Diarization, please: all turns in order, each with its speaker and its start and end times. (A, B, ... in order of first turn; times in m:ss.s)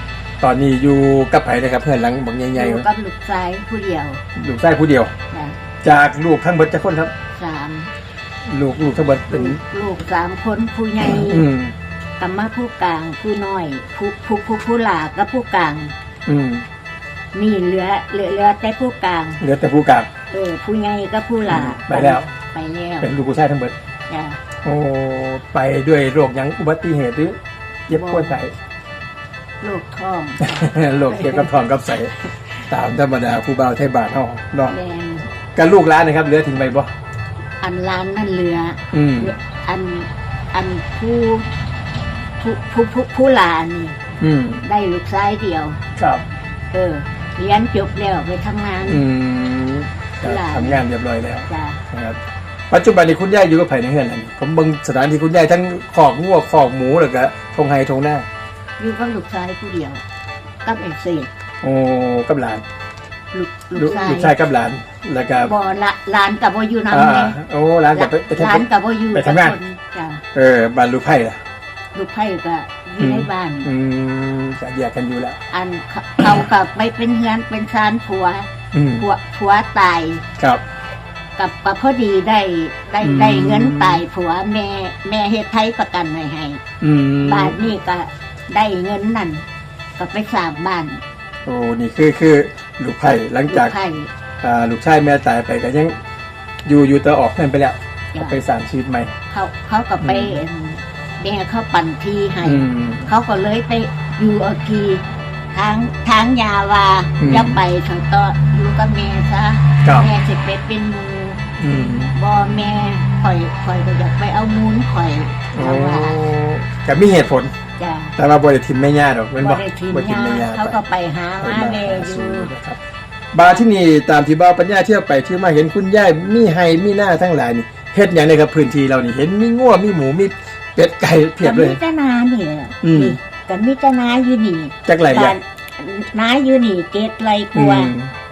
0:00.4-0:02.9 A
0:02.5-0:04.2 B
0:04.3-0:05.1 A
0:05.3-0:05.6 B
0:05.8-0:07.1 A
0:07.4-0:07.9 B
0:08.4-0:09.6 A
0:09.3-0:11.4 B
0:11.0-0:11.7 A
0:12.2-0:15.9 B
0:16.2-0:16.7 A
0:17.3-0:19.4 B
0:19.4-0:20.1 A
0:20.3-0:23.1 B
0:21.4-0:22.3 A
0:23.0-0:23.8 A
0:24.1-0:24.4 B
0:24.6-0:28.5 A
0:27.9-0:28.4 B
0:29.6-0:31.5 B
0:30.4-0:32.2 A
0:32.7-0:34.8 A
0:34.7-0:35.3 B
0:35.5-0:36.9 A
0:37.6-0:41.5 B
0:38.9-0:39.3 A
0:42.4-0:44.0 B
0:44.2-0:44.6 A
0:44.6-0:45.8 B
0:46.0-0:46.2 A
0:46.7-0:49.0 B
0:48.8-0:52.2 A
0:50.2-0:50.8 B
0:51.5-0:51.8 B
0:52.7-0:58.2 A
0:58.8-1:00.0 B
1:00.6-1:01.3 B
1:01.6-1:02.6 A
1:03.3-1:04.3 B
1:03.8-1:05.5 A
1:05.4-1:07.4 B
1:06.9-1:09.6 A
1:07.9-1:10.2 B
1:10.3-1:11.4 A
1:11.9-1:13.7 B
1:13.0-1:15.4 A
1:15.5-1:20.2 B
1:16.2-1:16.4 A
1:18.7-1:19.1 A
1:21.4-1:26.6 B
1:23.0-1:24.0 A
1:26.8-1:27.6 A
1:27.2-1:29.4 B
1:30.0-1:31.0 B
1:31.4-1:33.8 A
1:33.5-1:34.1 B
1:34.4-1:36.0 A
1:36.6-1:39.1 A
1:38.1-1:38.4 B
1:39.3-1:51.4 B
1:40.0-1:40.4 A
1:42.4-1:43.1 A
1:47.2-1:47.6 A
1:49.8-1:50.1 A
1:51.6-1:52.1 A
1:52.1-1:56.2 B
1:55.6-1:57.5 A
1:57.8-1:58.1 B
1:58.2-2:00.8 A
1:59.4-2:02.5 B
2:01.4-2:02.8 A
2:03.3-2:11.8 A
2:03.4-2:03.6 B
2:11.4-2:17.9 B
2:12.8-2:13.2 A
2:14.9-2:15.4 A
2:17.6-2:18.1 A